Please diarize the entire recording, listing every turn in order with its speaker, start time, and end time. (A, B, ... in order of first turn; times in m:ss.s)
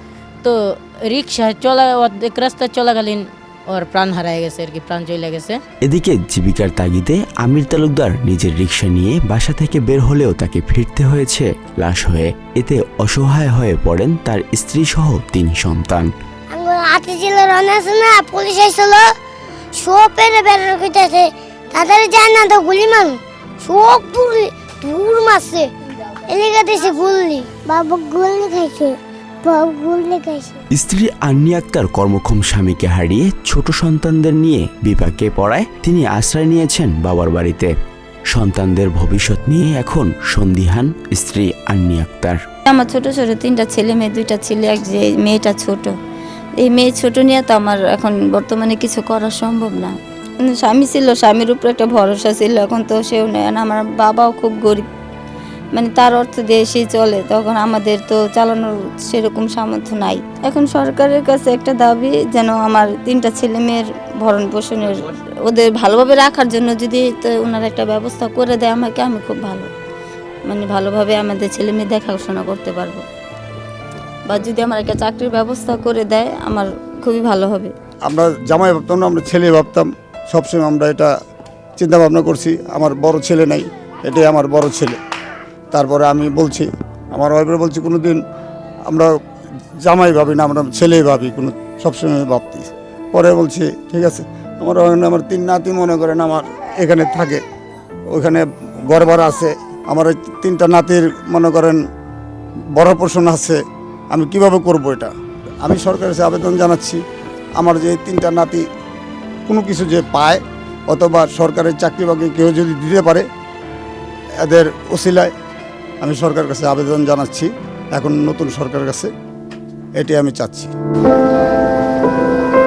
0:00.4-0:05.6 A
0:05.8-0:16.1 B
0:16.5-0:19.0 C
0:19.8-0:25.6 C
0:26.3-0:30.6 C
0:30.7-0:37.7 B
0:38.3-0:42.4 B
0:42.7-0:45.9 D
0:46.6-0:54.8 D
0:55.7-1:09.7 D
1:10.4-1:13.0 D
1:14.3-1:17.7 D
1:18.1-1:21.1 E
1:21.8-1:25.0 E
1:25.7-1:28.2 E
1:29.8-1:37.4 E
1:38.1-1:41.8 E
1:42.8-1:43.6 E
1:44.1-1:47.0 E
1:47.6-1:48.6 E
1:49.5-1:53.2 E
1:54.4-1:55.3 E
1:56.0-1:59.1 E
2:00.0-2:00.7 E